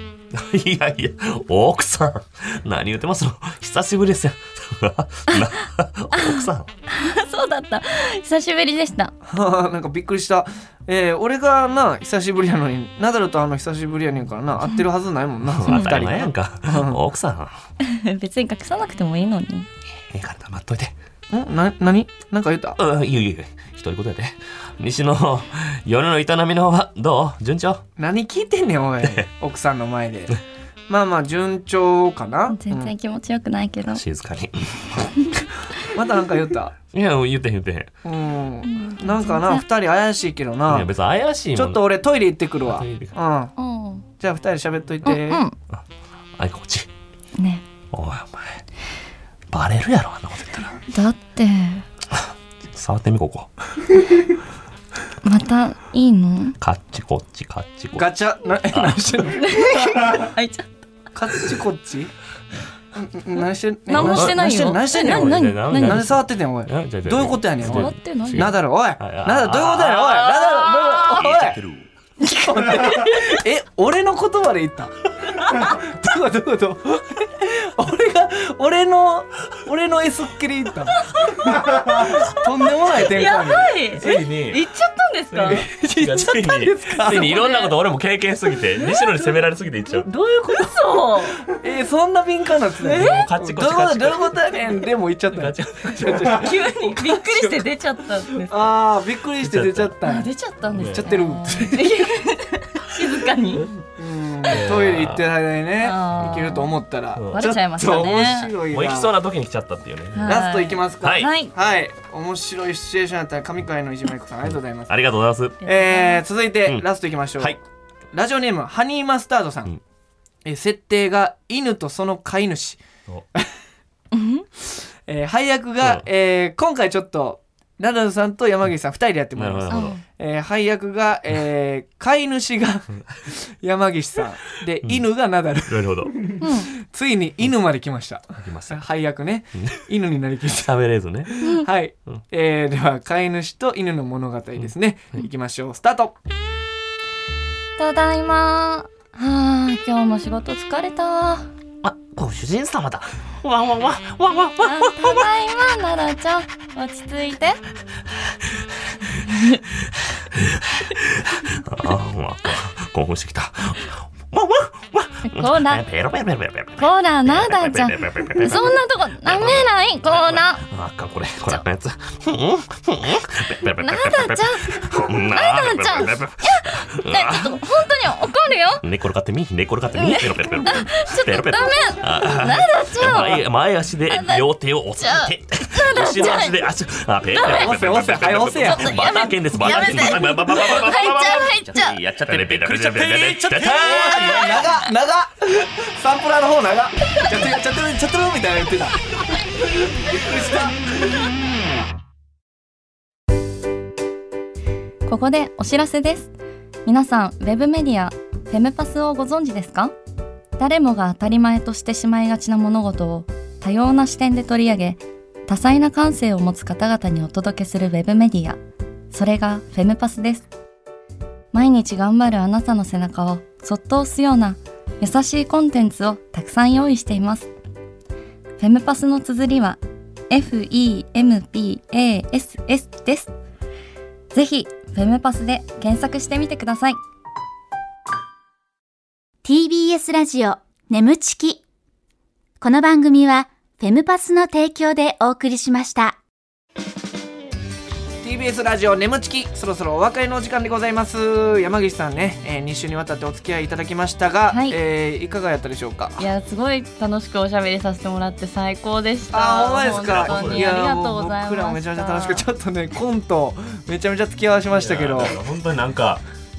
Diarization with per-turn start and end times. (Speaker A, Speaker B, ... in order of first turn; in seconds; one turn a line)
Speaker A: 0.3-6.7
Speaker B: 6.1-9.1
Speaker C: 9.2-17.0
Speaker A: 15.5-17.6
Speaker B: 15.7-16.0
Speaker B: 17.8-19.7
Speaker A: 20.1-20.9
Speaker C: 21.3-22.8
Speaker A: 22.8-27.8
Speaker C: 28.0-32.9
Speaker B: 32.5-34.0
Speaker A: 33.9-35.5
Speaker C: 35.9-36.8
Speaker A: 36.9-37.9
Speaker C: 38.0-40.9
Speaker B: 38.6-39.6
Speaker A: 40.7-41.8
Speaker C: 41.5-43.5
Speaker A: 42.6-43.1
Speaker B: 43.6-44.0
Speaker C: 44.2-45.4
Speaker B: 45.0-45.5
Speaker A: 46.4-46.9
Speaker A: 47.9-48.6
Speaker A: 49.5-50.8
Speaker B: 50.9-51.8
Speaker A: 52.7-53.5
Speaker B: 55.2-56.6
Speaker A: 56.6-58.1
Speaker C: 58.0-59.5
Speaker A: 58.7-59.2
Speaker B: 59.4-60.7
Speaker C: 61.1-62.1
Speaker C: 63.0-71.6
Speaker B: 63.9-66.0
Speaker A: 63.9-71.9
Speaker B: 67.7-68.5
Speaker B: 72.2-73.4
Speaker C: 72.2-83.8
Speaker B: 75.3-75.8
Speaker B: 81.0-85.7
Speaker A: 83.0-83.3
Speaker A: 83.9-84.6
Speaker C: 85.3-87.5
Speaker A: 86.0-90.1
Speaker B: 87.2-87.7
Speaker B: 90.1-91.4
Speaker C: 91.5-97.7
Speaker B: 92.8-93.3
Speaker A: 92.9-94.8
Speaker A: 95.3-96.4
Speaker B: 96.3-98.5
Speaker C: 98.5-100.3
Speaker A: 99.4-100.0
Speaker B: 100.0-103.7
Speaker A: 100.7-101.1
Speaker C: 100.9-102.0
Speaker C: 104.0-109.1
Speaker A: 104.5-105.2
Speaker B: 105.8-106.8
Speaker A: 107.2-107.4
Speaker B: 107.3-108.5
Speaker A: 108.7-110.4
Speaker B: 110.1-111.5
Speaker C: 110.2-115.0
Speaker A: 111.0-111.3
Speaker A: 114.9-115.6
Speaker C: 115.6-117.6
Speaker B: 115.7-116.2
Speaker C: 118.1-119.7
Speaker C: 120.5-122.8
Speaker B: 124.1-124.5
Speaker C: 125.1-146.1
Speaker A: 129.4-130.0
Speaker B: 129.7-130.0
Speaker A: 135.7-136.4
Speaker B: 136.4-136.7
Speaker A: 138.4-138.8
Speaker A: 139.6-139.8
Speaker A: 140.6-141.3
Speaker B: 141.4-141.7
Speaker B: 147.8-151.5
Speaker A: 151.8-155.3
Speaker B: 154.6-157.6
Speaker B: 159.3-159.6
Speaker A: 160.3-177.6
Speaker B: 165.2-165.8
Speaker B: 166.8-170.7
Speaker B: 173.8-178.8
Speaker A: 178.8-194.7
Speaker B: 179.9-183.4
Speaker B: 184.1-184.4
Speaker B: 185.0-186.6
Speaker B: 187.4-187.7
Speaker C: 187.4-189.1
Speaker B: 188.6-192.0
Speaker C: 192.2-200.9
Speaker B: 194.2-194.8
Speaker B: 205.1-206.3
Speaker B: 206.8-209.9
Speaker B: 210.6-218.6
Speaker B: 219.1-220.5
Speaker B: 221.5-227.5
Speaker B: 228.6-229.8
Speaker B: 230.3-233.3
Speaker B: 234.3-237.0
Speaker D: 239.4-241.6
Speaker D: 242.6-246.2
Speaker C: 248.2-256.3
Speaker B: 254.5-254.8
Speaker B: 256.2-262.4
Speaker C: 259.3-265.4
Speaker A: 259.9-260.7
Speaker A: 264.7-266.2